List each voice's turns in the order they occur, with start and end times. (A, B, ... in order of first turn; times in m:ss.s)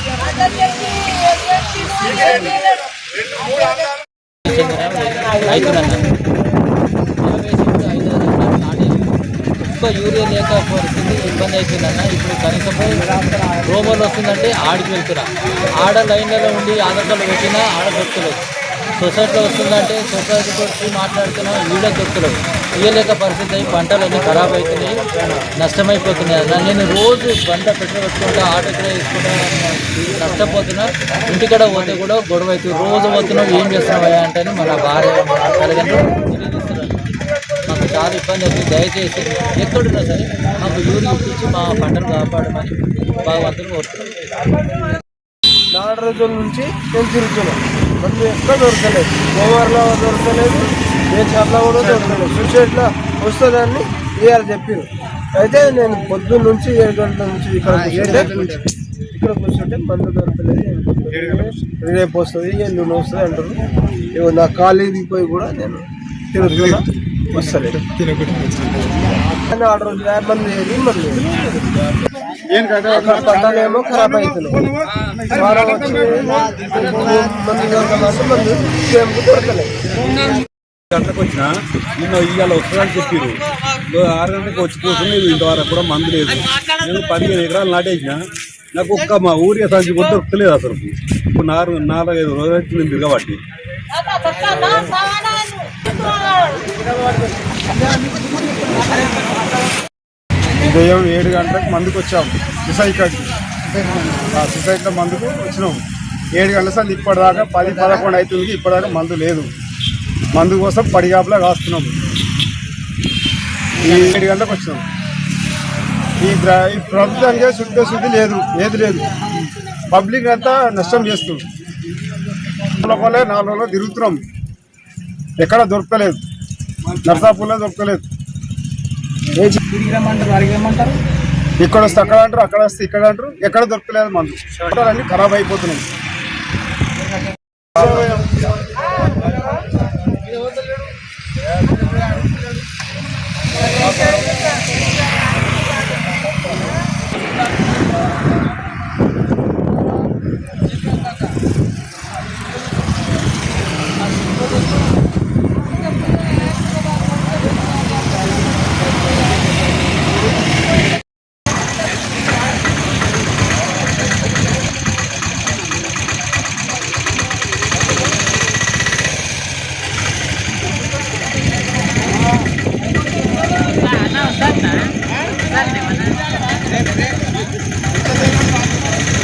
0:01.9-0:02.5 A
0:04.4-0:06.0 A
0:07.2-0:09.1 A
0:09.7-0:15.3 A
0:15.8-0:18.4 A
0:19.0-0:25.0 A
0:25.6-0:37.1 A
0:37.6-0:44.1 A
0:45.7-0:58.5 B
0:59.1-1:03.6 B
1:04.1-1:07.8 B
1:06.5-1:06.8 C
1:08.0-1:08.8 C
1:09.5-1:11.3 B
1:12.5-1:13.3 C
1:12.9-1:14.7 B
1:15.3-1:19.7 B
1:20.9-1:23.4 D
1:23.9-1:28.2 D
1:28.7-1:33.4 D
1:40.6-1:43.3 C
1:44.3-1:45.8 C
1:46.4-1:49.5 C
1:50.3-1:51.9 C
1:53.8-1:54.8 C
1:56.2-1:59.1 C
1:59.9-2:01.4 C
2:02.7-2:04.2 C
2:05.4-2:06.2 C
2:07.0-2:08.0 C
2:11.6-2:15.8 C